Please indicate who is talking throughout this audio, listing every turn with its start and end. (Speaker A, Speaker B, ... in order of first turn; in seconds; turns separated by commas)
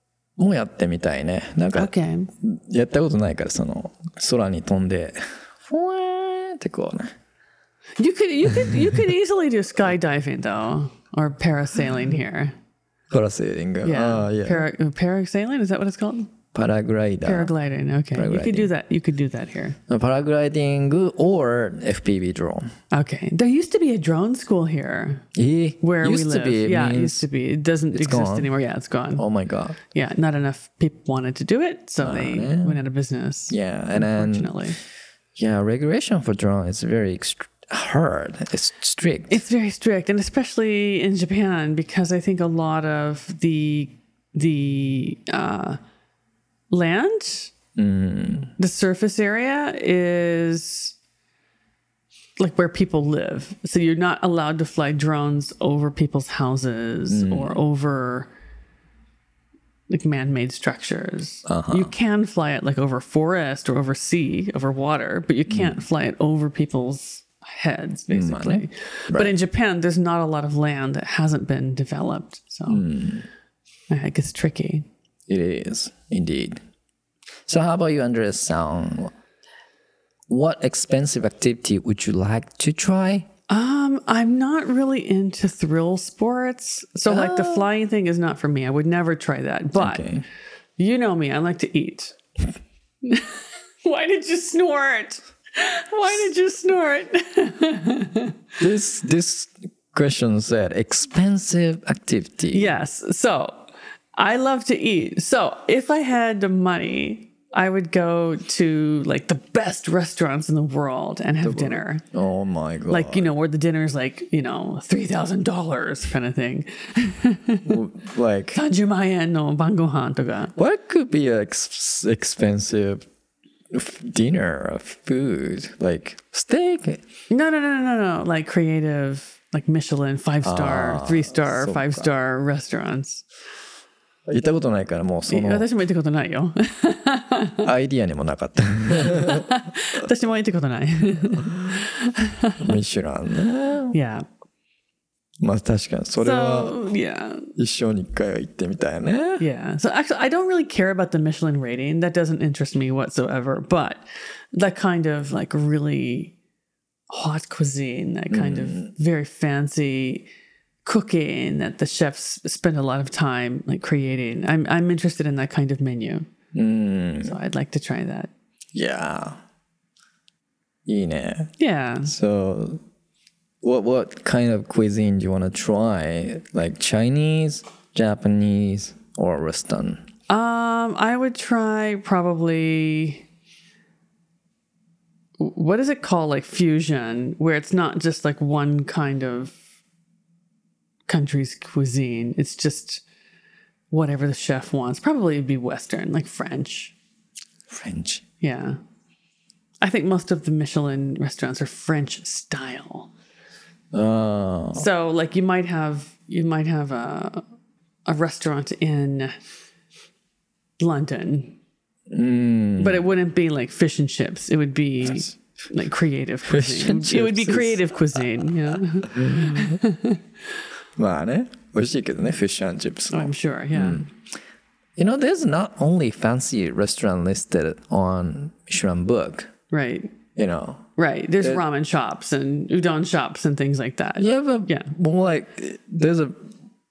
Speaker A: 0.4-7.1, Speaker B: 1.7-2.3, Speaker B: 8.0-12.6, Speaker A: 13.1-14.7, Speaker B: 13.8-16.3, Speaker A: 16.6-17.5, Speaker B: 17.2-19.8, Speaker A: 18.1-18.7, Speaker A: 19.9-22.7, Speaker B: 22.9-25.2, Speaker A: 25.4-27.2, Speaker B: 25.8-29.2, Speaker A: 27.9-28.5, Speaker A: 29.2-29.8, Speaker B: 29.9-34.8, Speaker A: 32.0-32.8, Speaker A: 33.5-34.5, Speaker A: 35.4-39.4, Speaker B: 39.3-45.8, Speaker B: 46.7-47.5, Speaker A: 47.8-48.5, Speaker B: 48.6-51.0, Speaker B: 52.4-58.3, Speaker A: 57.1-57.6, Speaker B: 59.9-72.9, Speaker A: 61.5-61.9, Speaker A: 65.5-65.8, Speaker A: 68.1-69.3, Speaker A: 72.7-73.3, Speaker B: 73.9-74.9, Speaker A: 75.3-76.6, Speaker A: 77.5-79.1, Speaker A: 80.3-83.3, Speaker B: 83.5-90.0, Speaker A: 87.1-87.7, Speaker A: 89.8-90.2, Speaker B: 90.8-92.2, Speaker B: 93.0-98.4, Speaker A: 98.6-102.7, Speaker B: 102.5-103.7, Speaker B: 104.2-112.0, Speaker A: 111.4-113.3, Speaker B: 112.9-117.8, Speaker A: 117.7-118.6, Speaker B: 118.5-120.5, Speaker A: 120.6-123.1, Speaker A: 123.7-127.0, Speaker B: 127.3-133.2, Speaker A: 130.4-132.1, Speaker A: 134.3-135.7, Speaker B: 135.3-137.7, Speaker A: 137.6-139.5, Speaker B: 139.0-142.6, Speaker A: 142.6-144.0, Speaker B: 143.9-144.2, Speaker A: 145.4-146.8, Speaker B: 146.2-147.5, Speaker A: 147.6-149.4, Speaker B: 149.4-156.3, Speaker B: 157.1-160.3, Speaker A: 158.3-158.9, Speaker B: 160.8-166.3, Speaker A: 166.5-167.3, Speaker B: 167.2-168.3, Speaker A: 168.7-169.4, Speaker A: 170.9-171.5, Speaker B: 171.6-172.1, Speaker A: 172.1-172.8, Speaker A: 173.6-180.1, Speaker B: 180.3-183.2, Speaker B: 185.4-189.6, Speaker B: 191.1-193.0, Speaker B: 193.9-196.9, Speaker A: 197.7-198.2, Speaker B: 198.4-198.8, Speaker B: 199.8-203.1, Speaker A: 203.9-204.9, Speaker B: 204.7-207.4, Speaker B: 208.1-209.3, Speaker B: 210.8-211.6, Speaker A: 212.1-213.1, Speaker B: 212.8-220.2, Speaker A: 216.5-217.8, Speaker A: 219.1-219.8, Speaker A: 221.0-224.1, Speaker B: 223.1-224.1, Speaker A: 225.0-229.5, Speaker B: 229.7-230.1, Speaker A: 230.4-230.9, Speaker B: 231.0-234.9, Speaker A: 234.2-236.3